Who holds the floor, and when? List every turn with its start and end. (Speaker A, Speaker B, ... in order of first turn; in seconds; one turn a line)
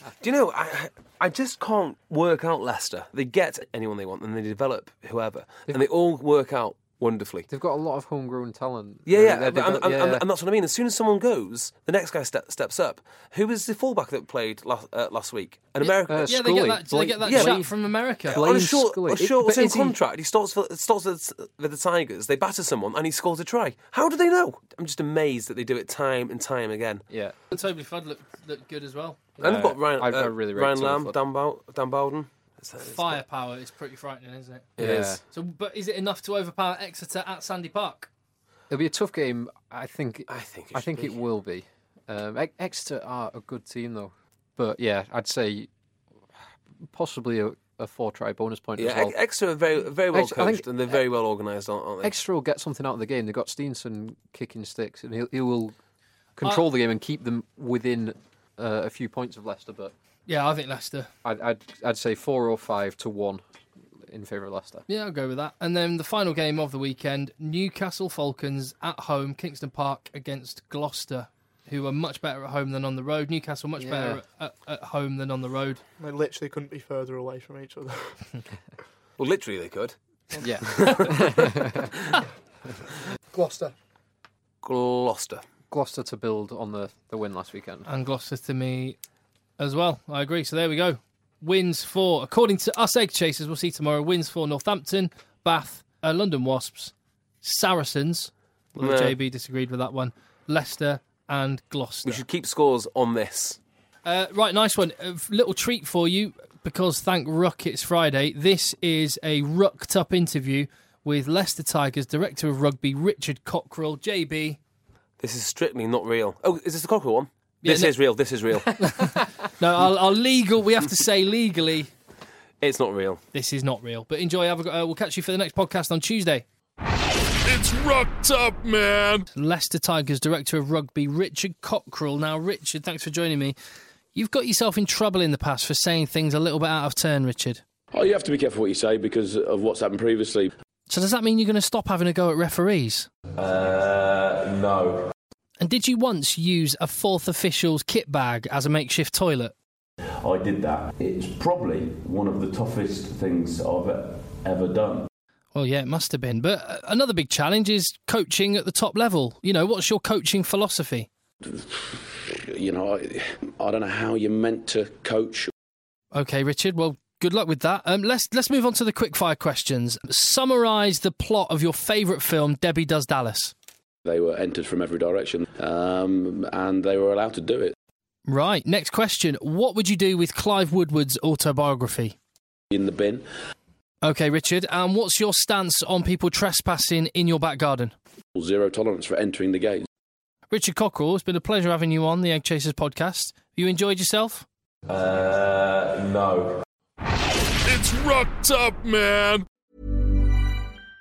Speaker A: 0.2-7.5
Speaker B: 7.5-10.2
Speaker A: 9.1-16.4
Speaker B: 15.8-17.7
Speaker C: 16.2-18.4
Speaker A: 17.2-17.6
Speaker B: 18.3-20.0
Speaker A: 18.3-27.0
Speaker C: 27.5-29.2
Speaker B: 29.4-31.2
Speaker A: 29.4-33.2
Speaker C: 32.8-38.1
Speaker A: 34.8-35.2
Speaker B: 34.8-35.2
Speaker B: 38.7-45.7
Speaker A: 40.3-41.2
Speaker B: 46.9-49.2
Speaker A: 48.8-52.2
Speaker B: 50.1-51.0
Speaker B: 52.0-55.7
Speaker B: 56.4-59.9
Speaker C: 60.3-61.1
Speaker B: 61.2-63.4
Speaker B: 64.1-64.8
Speaker C: 64.9-75.8
Speaker B: 73.8-74.2
Speaker D: 76.0-78.1
Speaker A: 79.2-80.0
Speaker B: 80.4-81.9
Speaker A: 80.6-81.9
Speaker D: 83.3-83.7
Speaker A: 84.6-85.4
Speaker B: 85.7-87.9
Speaker C: 87.8-89.0
Speaker C: 89.6-102.2
Speaker A: 98.8-99.2
Speaker A: 102.0-103.6
Speaker C: 104.0-114.6
Speaker A: 115.2-118.8
Speaker C: 117.6-118.0
Speaker C: 118.8-121.9
Speaker A: 122.6-123.2
Speaker C: 123.3-126.5
Speaker E: 127.5-129.2
Speaker C: 129.3-133.6
Speaker C: 134.2-137.6
Speaker F: 137.9-140.6
Speaker C: 140.9-143.1
Speaker F: 143.4-145.1
Speaker C: 145.6-149.5
Speaker F: 150.2-155.1
Speaker C: 155.5-161.1
Speaker F: 161.4-165.5
Speaker C: 166.1-173.5
Speaker F: 174.1-177.8
Speaker C: 178.3-182.2
Speaker F: 182.7-183.3
Speaker C: 184.0-187.9
Speaker F: 188.3-189.9
Speaker C: 190.5-194.5
Speaker A: 194.9-195.4
Speaker F: 195.4-195.9
Speaker E: 197.7-199.4
Speaker A: 197.9-199.0